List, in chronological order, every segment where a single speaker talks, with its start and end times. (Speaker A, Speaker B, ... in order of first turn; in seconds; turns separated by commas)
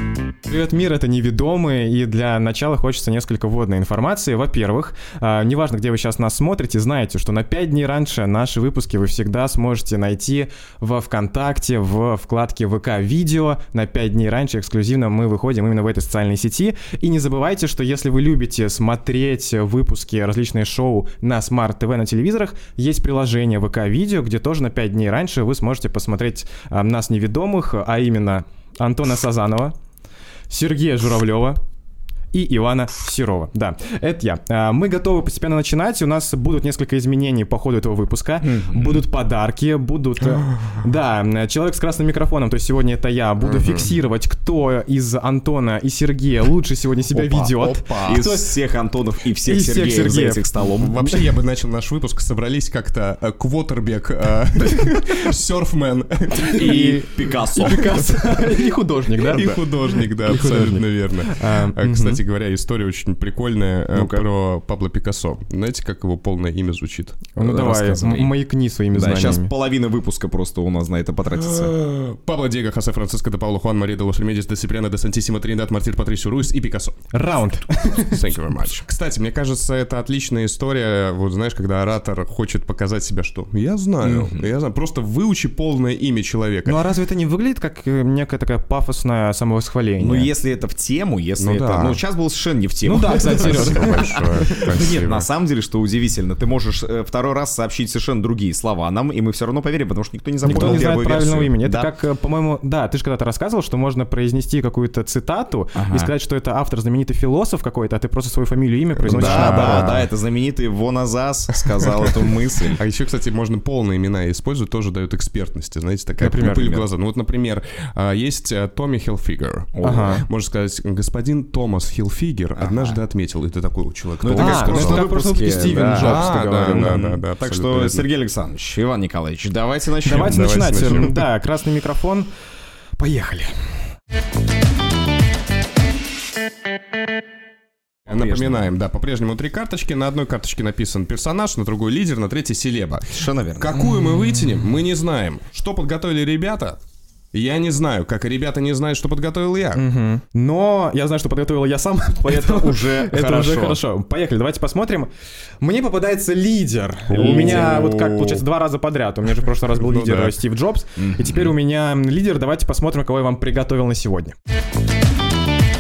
Speaker A: 0.5-29.7, Speaker A: 30.5-31.6, Speaker A: 32.3-48.5, Speaker B: 38.4-39.0, Speaker C: 43.4-43.9, Speaker B: 47.1-51.0, Speaker C: 47.5-48.2, Speaker A: 49.4-50.5, Speaker C: 50.8-57.0, Speaker A: 56.4-62.2, Speaker B: 56.5-58.1, Speaker C: 57.6-58.0, Speaker C: 59.3-67.3, Speaker B: 59.3-59.6, Speaker B: 63.9-64.2, Speaker A: 67.3-69.5, Speaker B: 67.4-68.4, Speaker B: 68.9-71.7, Speaker C: 71.3-77.0, Speaker A: 77.1-78.2, Speaker C: 78.0-86.8, Speaker B: 84.0-84.5, Speaker A: 86.7-90.3, Speaker B: 90.0-101.9, Speaker C: 91.4-92.0, Speaker A: 92.8-94.8, Speaker C: 93.2-95.3, Speaker A: 100.4-109.9, Speaker C: 100.5-100.9, Speaker B: 105.7-106.1, Speaker B: 109.0-112.8, Speaker C: 109.1-110.1, Speaker C: 112.7-125.1, Speaker A: 116.2-116.9, Speaker B: 119.7-120.2, Speaker A: 119.8-120.2, Speaker B: 122.5-123.0, Speaker B: 124.2-131.0, Speaker A: 124.3-127.0, Speaker C: 125.8-128.1, Speaker A: 130.0-132.3, Speaker C: 130.1-131.2, Speaker A: 133.0-133.6, Speaker B: 138.1-138.7, Speaker C: 138.1-146.8, Speaker B: 143.1-143.8, Speaker A: 143.8-144.4, Speaker C: 147.3-149.8, Speaker A: 149.7-155.1, Speaker B: 152.2-153.8, Speaker A: 155.6-164.3, Speaker C: 157.1-158.4, Speaker B: 157.1-157.9, Speaker C: 159.7-160.4, Speaker B: 161.0-161.5